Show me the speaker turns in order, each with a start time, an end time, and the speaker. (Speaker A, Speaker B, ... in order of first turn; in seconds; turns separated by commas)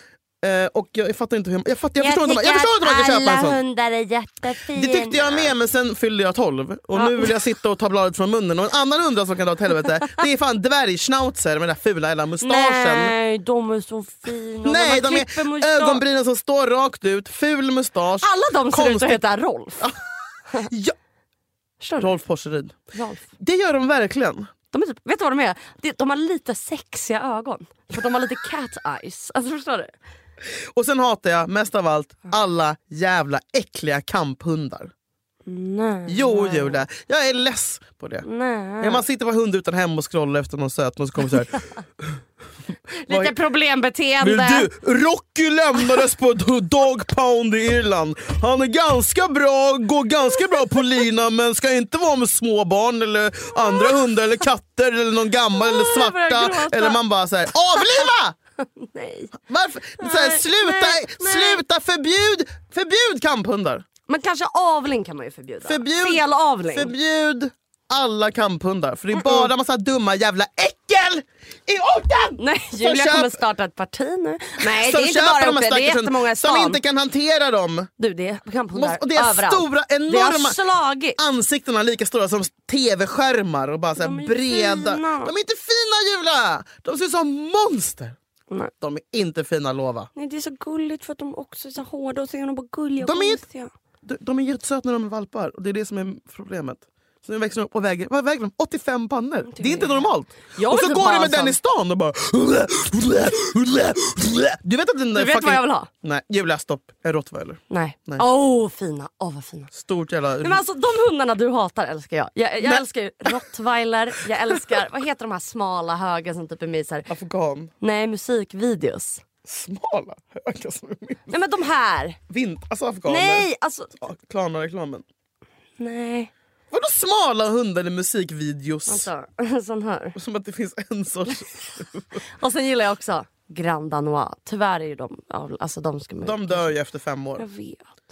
Speaker A: 0.4-3.6, Speaker B: 1.9-5.5, Speaker A: 4.7-13.1, Speaker B: 6.9-7.4, Speaker B: 12.4-16.0, Speaker A: 14.6-19.3, Speaker B: 18.2-19.9, Speaker A: 20.5-20.9, Speaker B: 21.8-22.1, Speaker A: 22.0-22.8, Speaker B: 22.9-23.3, Speaker A: 23.4-24.5, Speaker B: 24.7-29.9, Speaker A: 30.5-34.9, Speaker B: 35.5-36.8, Speaker A: 36.1-38.2, Speaker B: 38.2-39.0, Speaker A: 38.8-42.2, Speaker B: 42.9-44.7, Speaker A: 43.1-43.4, Speaker A: 44.2-58.4, Speaker B: 55.5-57.0, Speaker B: 57.8-58.0, Speaker B: 58.8-59.3, Speaker A: 59.4-63.8, Speaker B: 60.0-61.6, Speaker B: 64.1-66.9, Speaker A: 65.6-73.4, Speaker B: 69.1-69.5, Speaker B: 72.4-76.8, Speaker A: 74.6-77.9, Speaker B: 78.0-81.2, Speaker A: 78.7-80.6, Speaker A: 81.2-88.2, Speaker B: 84.0-85.3, Speaker A: 88.8-90.1, Speaker B: 90.1-93.7, Speaker A: 93.0-93.4, Speaker A: 94.0-108.2, Speaker B: 99.5-101.6, Speaker B: 105.1-105.9, Speaker B: 107.7-109.7, Speaker A: 109.7-110.6, Speaker B: 110.4-117.1, Speaker A: 112.6-113.3, Speaker A: 114.5-114.8, Speaker A: 117.1-117.7, Speaker B: 117.8-119.2, Speaker A: 119.4-121.3, Speaker B: 121.3-122.2, Speaker A: 122.3-125.0, Speaker B: 123.0-123.9, Speaker B: 125.8-126.3, Speaker A: 126.7-129.1, Speaker B: 128.9-130.2, Speaker A: 130.1-132.2, Speaker B: 132.2-136.7, Speaker A: 136.2-137.5, Speaker B: 137.4-137.9